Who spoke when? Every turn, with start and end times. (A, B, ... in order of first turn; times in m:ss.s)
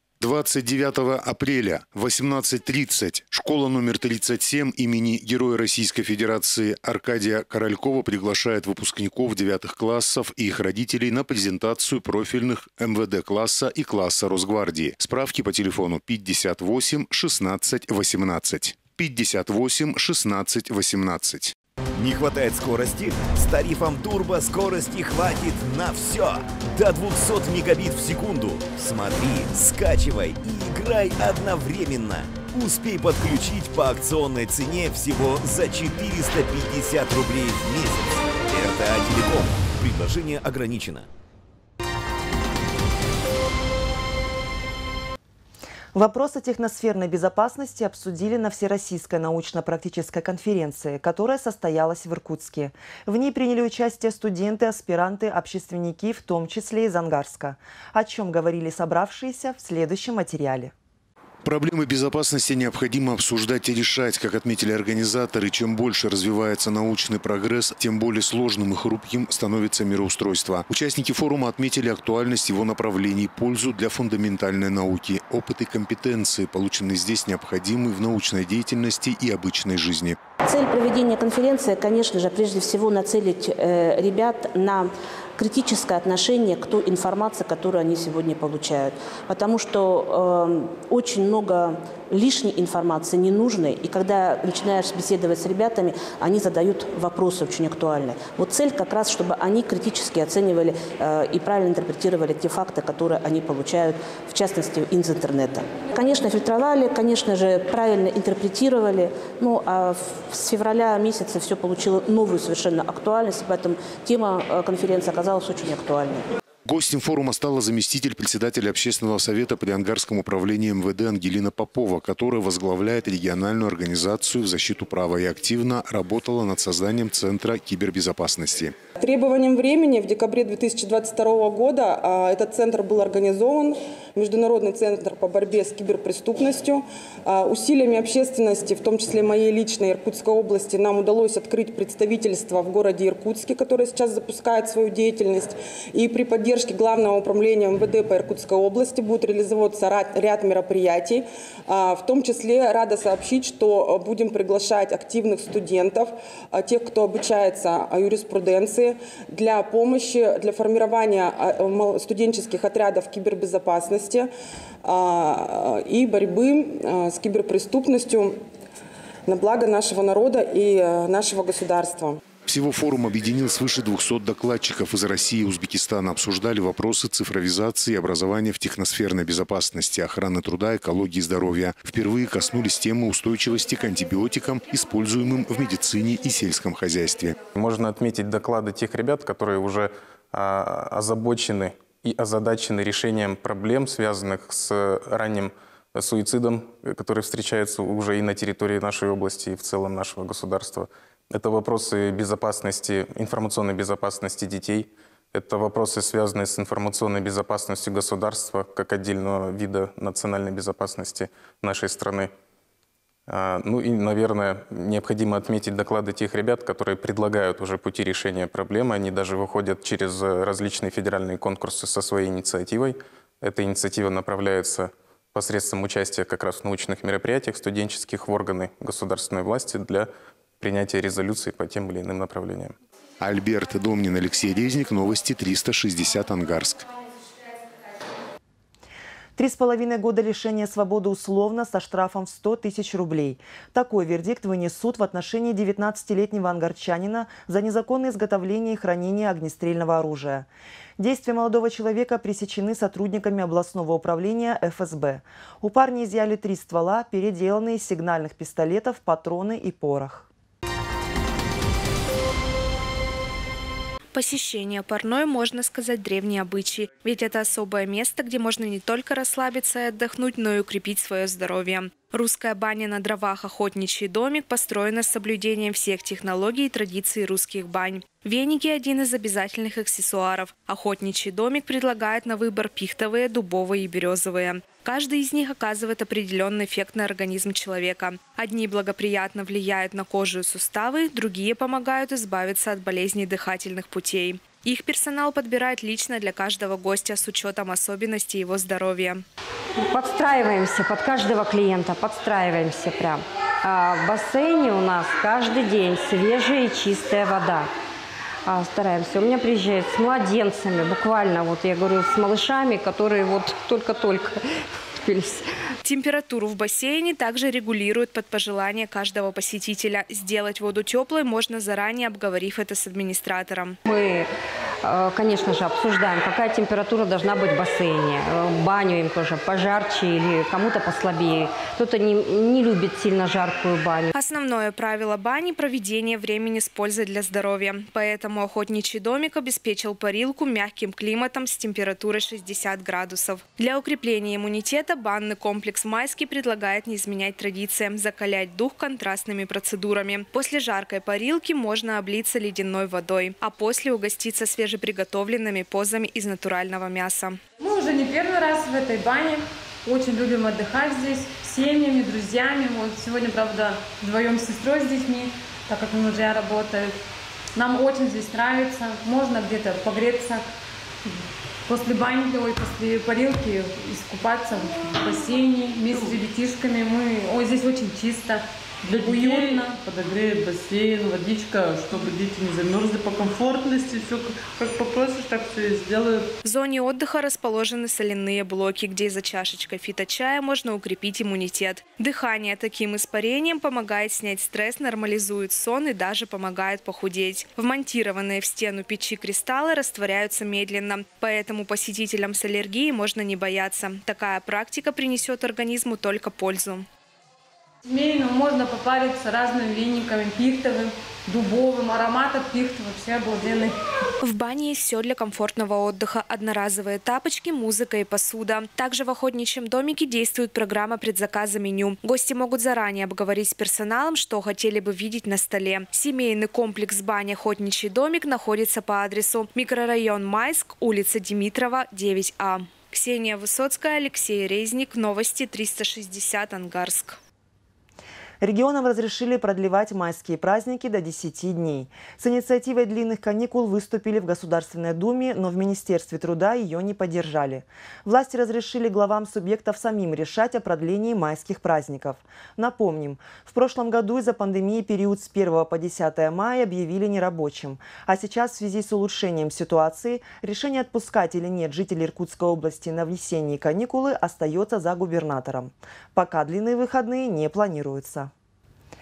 0:00.2-0:21.5 A
0:22.0-0:41.1 B
0:45.9-1:00.7 C
1:01.4-1:20.2 A
1:20.4-1:56.3 D
1:56.7-2:08.7 A
2:09.0-2:44.3 E
2:44.8-2:48.4 E
2:49.3-2:52.2 E
2:52.5-3:07.4 A
3:07.5-3:32.3 F
3:33.3-3:50.1 F
3:50.6-3:52.7 F
3:53.2-3:56.8 A
3:59.4-4:20.3 C
4:24.1-4:59.2 G
4:59.9-5:07.7 H
5:08.4-5:14.4 H
5:15.0-5:15.4 H
5:15.8-5:23.8 G
5:23.9-5:24.3 H
5:24.8-5:34.1 H
5:34.1-5:57.4 G
5:57.6-6:06.9 I
6:07.5-6:10.4 I
6:11.6-6:19.8 I
6:18.8-6:26.2 J
6:26.4-6:46.9 G
6:47.9-6:53.8 I
6:54.2-7:17.2 G
7:18.4-7:48.3 C